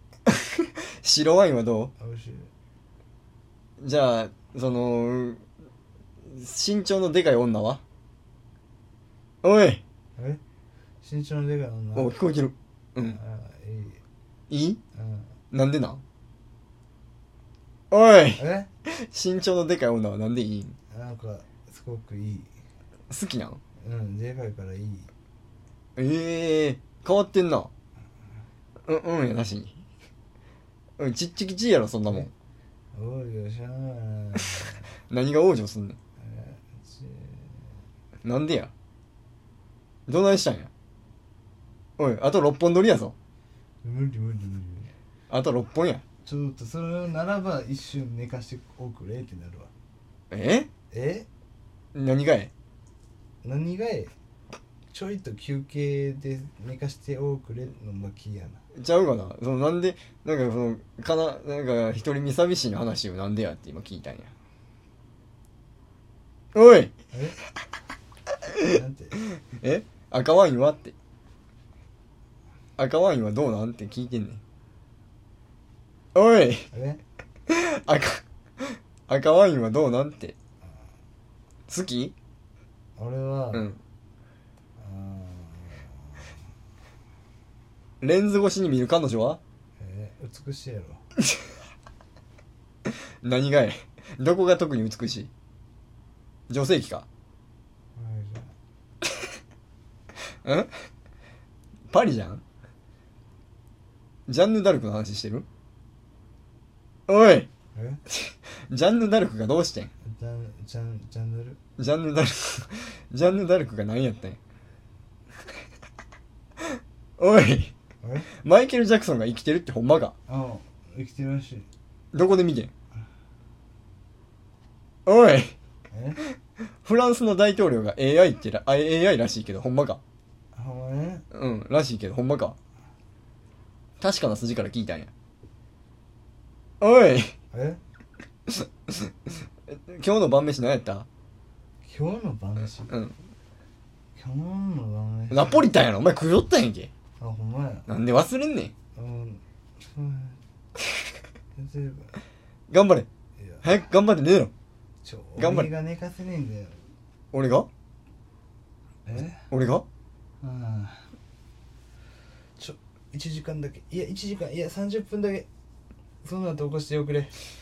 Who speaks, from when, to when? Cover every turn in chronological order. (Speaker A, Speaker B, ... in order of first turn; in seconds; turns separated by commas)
Speaker A: 0.3-1.9, Speaker B: 2.0-2.5, Speaker A: 3.8-5.4, Speaker A: 6.2-7.8, Speaker A: 9.4-9.8, Speaker B: 11.0-12.1, Speaker A: 11.9-13.2, Speaker B: 13.1-14.0, Speaker A: 14.5-14.8, Speaker B: 14.9-15.3, Speaker A: 15.5-16.0, Speaker A: 17.9-20.8, Speaker B: 18.4-18.7, Speaker B: 20.9-22.5, Speaker A: 23.1-23.6, Speaker B: 23.8-25.1, Speaker A: 26.0-27.7, Speaker A: 28.9-29.8, Speaker A: 31.0-32.3, Speaker B: 32.9-34.9, Speaker A: 35.1-36.0, Speaker B: 36.2-37.7, Speaker A: 38.2-38.7, Speaker A: 40.1-40.7, Speaker A: 42.0-43.1, Speaker B: 43.8-44.9, Speaker A: 45.3-46.0, Speaker B: 46.2-49.7, Speaker A: 50.3-50.7, Speaker B: 50.9-51.3, Speaker A: 51.9-52.5, Speaker B: 53.4-54.1, Speaker B: 54.9-58.6, Speaker A: 58.7-64.3, Speaker A: 66.5-66.9, Speaker B: 67.1-67.4, Speaker A: 68.5-70.9, Speaker B: 68.6-69.2, Speaker A: 72.8-74.4, Speaker A: 76.1-76.7, Speaker B: 76.7-77.0, Speaker A: 77.5-80.3, Speaker A: 81.7-82.1, Speaker B: 83.0-83.7, Speaker A: 83.5-83.8, Speaker B: 84.8-86.3, Speaker A: 88.0-89.4, Speaker B: 89.8-91.0, Speaker A: 92.8-95.3, Speaker A: 96.5-97.0, Speaker B: 98.0-98.5, Speaker A: 100.4-100.8, Speaker A: 101.9-102.4, Speaker A: 104.3-105.5, Speaker A: 107.1-107.5, Speaker B: 107.7-108.0, Speaker A: 108.1-109.9, Speaker B: 110.0-111.6, Speaker A: 111.8-114.4, Speaker A: 117.2-117.7, Speaker A: 118.3-120.1, Speaker B: 120.3-121.7, Speaker A: 122.1-122.7, Speaker A: 125.0-125.5, Speaker B: 125.9-126.2, Speaker A: 126.3-130.0, Speaker B: 130.5-131.2, Speaker A: 131.3-132.6, Speaker A: 134.0-135.1, Speaker A: 136.8-137.3, Speaker B: 137.5-137.8, Speaker A: 138.5-141.1, Speaker B: 141.8-142.9, Speaker A: 142.9-143.1, Speaker B: 144.2-145.7, Speaker A: 145.3-146.9, Speaker B: 147.2-147.9, Speaker A: 147.9-148.7, Speaker B: 148.9-150.4, Speaker B: 151.5-152.2, Speaker A: 152.7-153.1, Speaker B: 153.4-153.8, Speaker A: 153.6-154.5, Speaker B: 155.0-156.9, Speaker A: 155.4-155.7, Speaker A: 157.3-157.7, Speaker B: 159.1-159.4, Speaker A: 159.5-159.8, Speaker B: 160.4-161.1, Speaker B: 162.6-165.5, Speaker B: 166.2-167.4